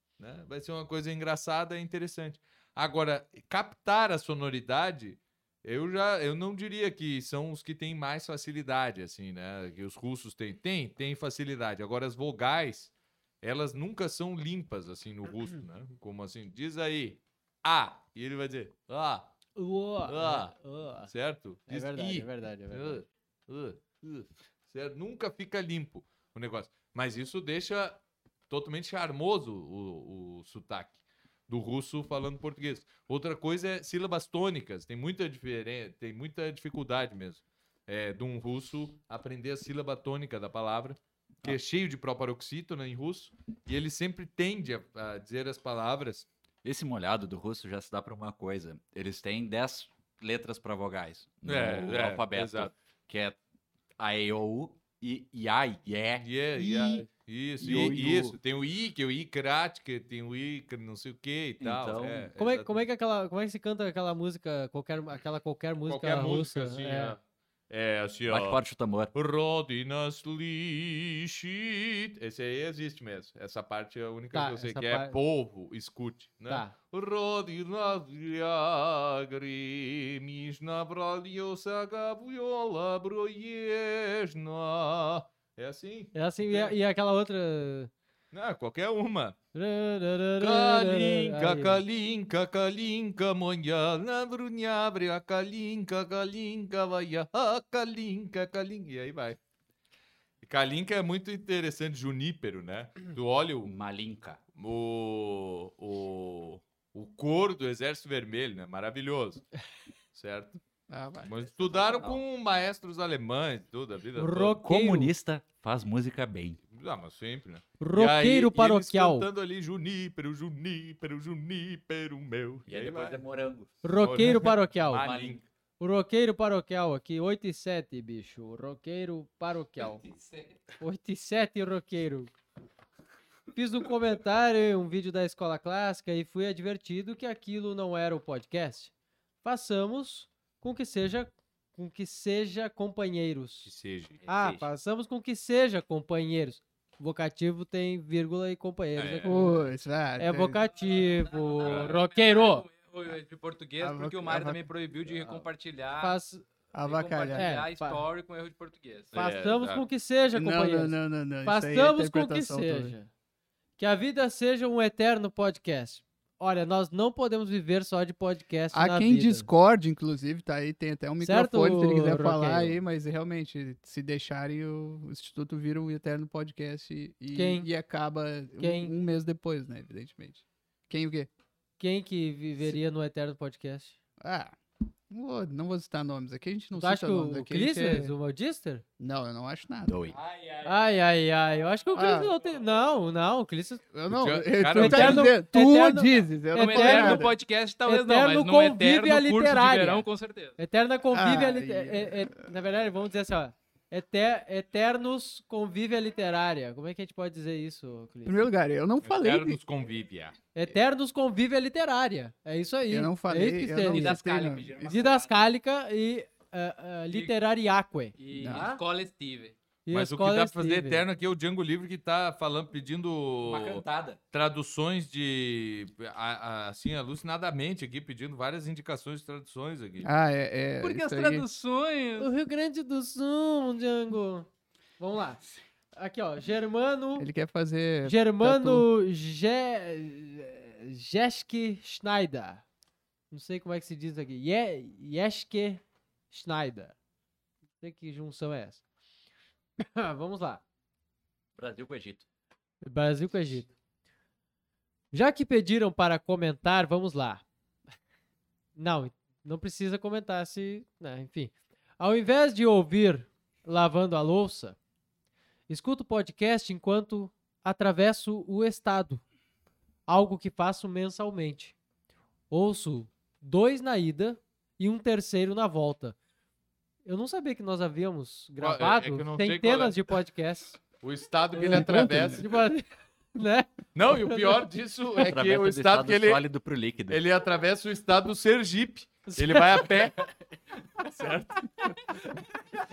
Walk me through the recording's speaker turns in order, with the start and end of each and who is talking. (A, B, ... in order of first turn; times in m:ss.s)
0:00.2-0:19.3 A
0:19.6-0:21.1 B
0:20.0-0:20.5 A
0:21.1-0:46.3 A
0:21.7-0:23.0 B
0:46.6-0:53.4 C
0:51.4-0:52.7 A
0:54.0-0:57.1 C
0:56.2-1:02.8 A
0:57.6-0:58.4 C
1:01.6-1:02.3 C
1:02.4-1:07.2 B
1:05.9-1:08.6 A
1:08.3-1:09.1 C
1:09.1-1:26.8 A
1:14.3-1:15.2 B
1:16.5-1:16.7 B
1:26.1-1:27.9 B
1:28.3-1:29.4 A
1:29.5-1:31.8 B
1:30.4-1:39.4 A
1:40.4-1:43.7 A
1:43.6-1:44.4 C
1:44.6-1:49.5 A
1:50.1-1:50.6 A
1:50.9-1:51.8 D
1:51.2-1:54.6 A
1:54.2-1:55.1 B
1:54.6-1:56.6 C
1:56.7-2:03.2 A
1:57.8-1:59.3 B
2:02.7-2:03.7 C
2:03.8-2:05.1 B
2:04.0-2:05.5 A
2:05.0-2:05.4 C
2:05.8-2:10.0 B
2:10.2-2:10.5 E
2:10.8-2:12.3 B
2:13.6-2:18.9 B
2:19.4-2:23.7 B
2:23.6-2:24.2 A
2:24.2-2:24.6 C
2:24.3-2:32.7 B
2:29.0-2:29.4 A
2:29.3-2:30.6 D
2:30.8-2:36.2 E
2:31.6-2:31.9 A
2:33.8-2:34.6 D
2:35.0-2:36.4 B
2:36.7-2:37.5 D
2:36.8-2:39.1 E
2:37.3-2:38.0 B
2:39.1-2:43.1 B
2:39.1-2:39.9 A
2:40.3-2:43.0 D
2:43.8-2:49.5 B
2:48.7-3:01.3 D
2:51.2-2:52.8 B
2:57.3-2:57.7 B
2:58.6-2:58.9 B
3:01.8-3:04.0 B
3:04.2-3:04.6 D
3:05.1-3:08.1 D
3:06.8-3:08.8 B
3:09.0-3:10.1 D
3:09.9-3:10.2 C
3:10.1-3:10.8 E
3:10.6-3:13.9 B
3:12.0-3:12.3 D
3:13.9-3:17.3 D
3:14.1-3:15.3 A
3:14.7-3:20.1 B
3:16.6-3:20.6 E
3:20.6-3:28.5 B
3:21.1-3:22.5 D
3:28.3-3:29.6 D
3:29.0-3:30.4 A
3:30.5-3:34.2 B
3:32.9-3:34.8 D
3:33.9-3:35.0 E
3:34.2-3:35.3 C
3:34.8-3:38.8 B
3:37.1-3:37.3 E
3:38.2-3:39.6 E
3:38.4-3:38.6 D
3:39.9-3:41.0 B
3:39.9-3:50.1 A
3:43.4-3:44.2 C
3:50.0-3:51.5 D
3:50.8-3:52.3 E
3:52.2-3:57.3 B
3:57.2-3:58.9 D
3:58.0-4:02.6 B
4:03.3-4:07.0 B
4:07.8-4:08.8 B
4:09.8-4:10.6 B
4:11.6-4:12.2 C
4:12.8-4:13.7 B
4:15.1-4:17.4 B
4:18.8-4:24.8 B
4:25.7-4:29.2 B
4:30.1-4:31.8 B
4:32.5-4:36.2 B
4:37.0-4:40.8 B
4:38.6-4:40.0 A
4:41.0-4:42.5 A
4:41.5-4:43.7 B
4:41.6-4:42.4 D
4:44.0-4:46.4 A
4:44.3-4:44.6 B
4:45.2-4:47.2 C
4:47.1-4:50.3 A
4:49.3-4:49.9 B
4:51.0-4:52.3 A